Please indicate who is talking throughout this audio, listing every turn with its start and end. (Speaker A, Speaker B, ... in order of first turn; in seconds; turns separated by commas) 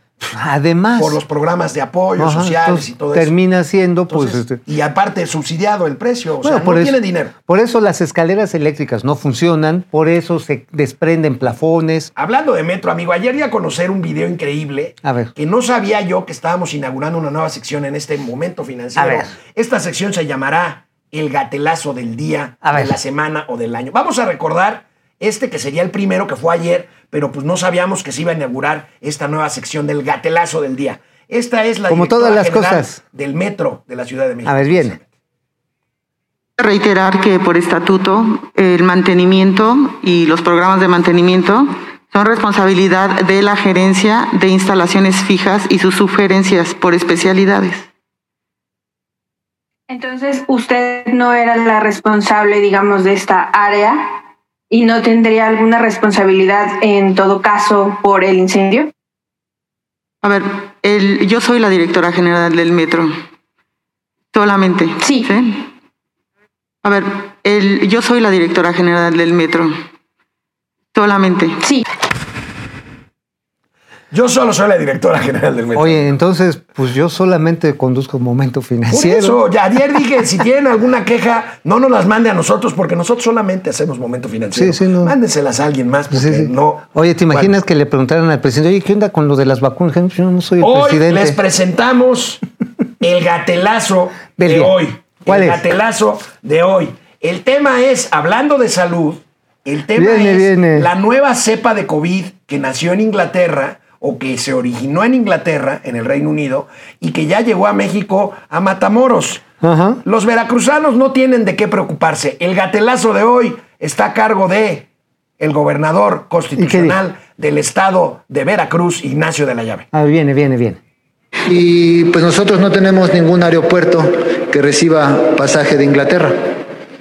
Speaker A: 0.2-1.2, Speaker B: 1.0-3.3, Speaker A: 2.2-4.6, Speaker B: 4.1-7.3, Speaker A: 6.4-12.1, Speaker B: 12.2-35.1, Speaker A: 15.0-15.3, Speaker A: 19.0-19.3, Speaker A: 22.6-23.0, Speaker A: 31.9-33.0, Speaker A: 34.5-35.0, Speaker C: 36.6-47.9, Speaker D: 49.9-54.0, Speaker D: 54.7-58.9, Speaker C: 60.2-63.1, Speaker C: 64.3-65.7, Speaker D: 65.0-65.3, Speaker C: 66.8-69.8, Speaker C: 70.9-71.7, Speaker B: 74.1-76.1, Speaker A: 75.8-79.4, Speaker B: 78.9-87.6, Speaker A: 84.5-85.2, Speaker A: 86.1-91.4, Speaker B: 90.6-92.4, Speaker B: 93.0-109.4, Speaker A: 94.4-95.6, Speaker A: 100.0-100.9, Speaker A: 109.6-110.0, Speaker B: 110.0-114.9, Speaker B: 115.4-119.9, Speaker A: 116.6-117.0, Speaker A: 119.9-120.8, Speaker E: 121.5-126.5